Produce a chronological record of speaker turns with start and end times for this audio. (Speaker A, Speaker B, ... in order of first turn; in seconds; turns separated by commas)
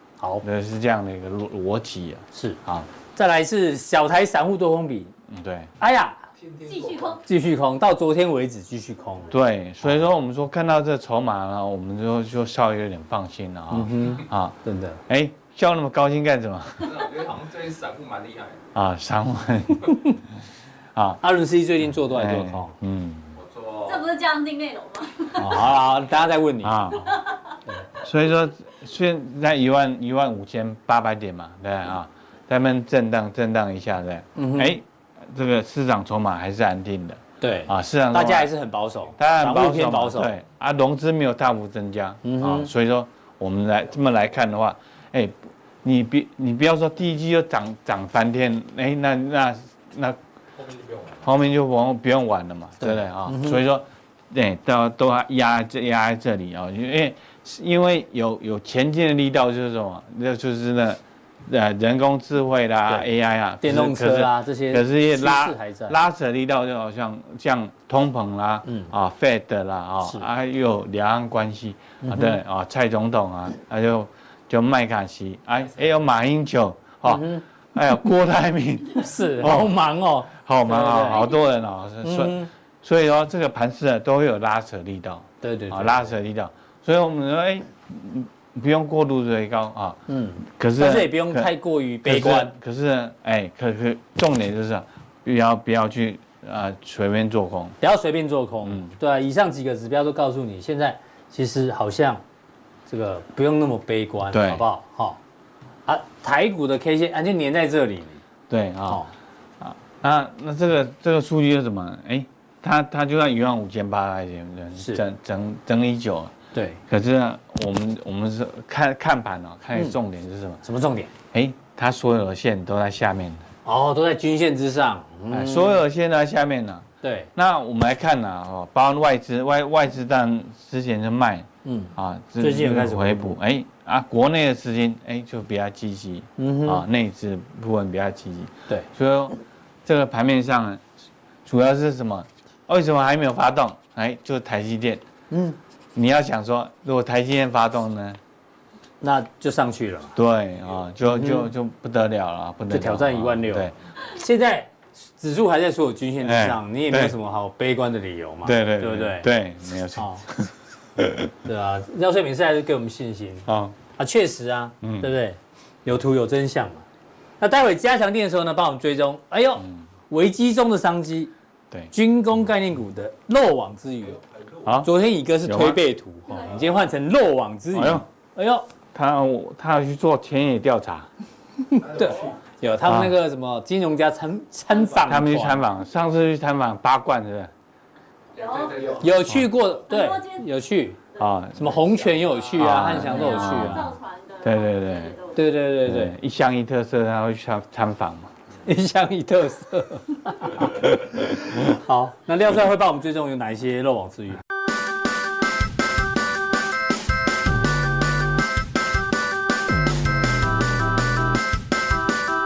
Speaker A: 0.2-0.4, Speaker B: 0.4-2.9, Speaker A: 2.3-2.6, Speaker A: 3.1-5.1, Speaker B: 5.3-5.7, Speaker A: 5.8-6.2, Speaker C: 6.4-7.2, Speaker D: 6.6-7.2, Speaker A: 7.2-9.3, Speaker B: 9.3-17.1, Speaker A: 13.7-15.0, Speaker E: 16.8-18.6, Speaker B: 18.7-20.0, Speaker B: 20.9-21.2, Speaker A: 21.2-22.7, Speaker B: 22.1-23.3, Speaker E: 23.4-24.0, Speaker D: 23.9-25.6, Speaker A: 25.3-26.9, Speaker B: 26.6-27.2, Speaker D: 27.1-27.3, Speaker B: 28.0-38.5, Speaker A: 34.4-34.8, Speaker A: 37.4-40.3, Speaker B: 39.2-50.2, Speaker A: 42.2-42.7, Speaker C: 50.5-51.2, Speaker B: 51.2-91.5, Speaker A: 52.8-53.6, Speaker A: 63.6-66.0, Speaker A: 68.7-68.9, Speaker A: 70.0-70.3, Speaker A: 72.0-72.4, Speaker A: 77.0-77.4, Speaker A: 79.0-81.3, Speaker A: 82.0-82.5, Speaker A: 85.4-86.1, Speaker A: 90.1-92.5, Speaker B: 92.0-97.8, Speaker A: 97.8-102.2, Speaker B: 98.6-98.9, Speaker A: 102.9-105.2, Speaker B: 104.3-104.6, Speaker A: 105.8-108.2, Speaker B: 108.5-109.0, Speaker A: 108.9-109.1, Speaker B: 109.6-116.3, Speaker A: 114.8-115.0, Speaker A: 116.5-116.8, Speaker B: 116.9-120.6, Speaker A: 120.6-121.1, Speaker B: 121.3-123.4, Speaker A: 123.6-125.8, Speaker B: 125.3-140.8, Speaker A: 127.0-127.3, Speaker A: 131.6-133.3, Speaker A: 136.4-136.8, Speaker B: 141.4-145.0, Speaker A: 145.3-145.6, Speaker B: 145.9-148.2, Speaker A: 149.0-150.2, Speaker B: 150.1-153.7, Speaker A: 151.1-151.5, Speaker A: 152.7-159.3, Speaker B: 156.2-157.1, Speaker B: 158.4-161.3, Speaker A: 159.9-160.2, Speaker A: 161.4-166.8, Speaker B: 163.4-163.8, Speaker B: 164.8-165.1, Speaker A: 167.4-171.3, Speaker A: 171.9-174.2, Speaker C: 174.0-174.8, Speaker B: 174.6-174.9, Speaker A: 174.8-178.7, Speaker B: 175.4-175.8, Speaker B: 177.7-178.0, Speaker B: 178.9-181.1, Speaker A: 181.8-185.6, Speaker C: 181.8-182.3, Speaker B: 182.8-183.1, Speaker B: 185.0-187.5, Speaker D: 188.3-188.9, Speaker C: 188.4-189.1, Speaker A: 189.0-191.0, Speaker D: 189.9-190.4, Speaker B: 191.2-191.8, Speaker A: 191.6-193.9, Speaker B: 192.5-195.2, Speaker D: 192.7-195.4, Speaker A: 195.3-196.1, Speaker B: 195.8-198.3, Speaker A: 198.7-204.4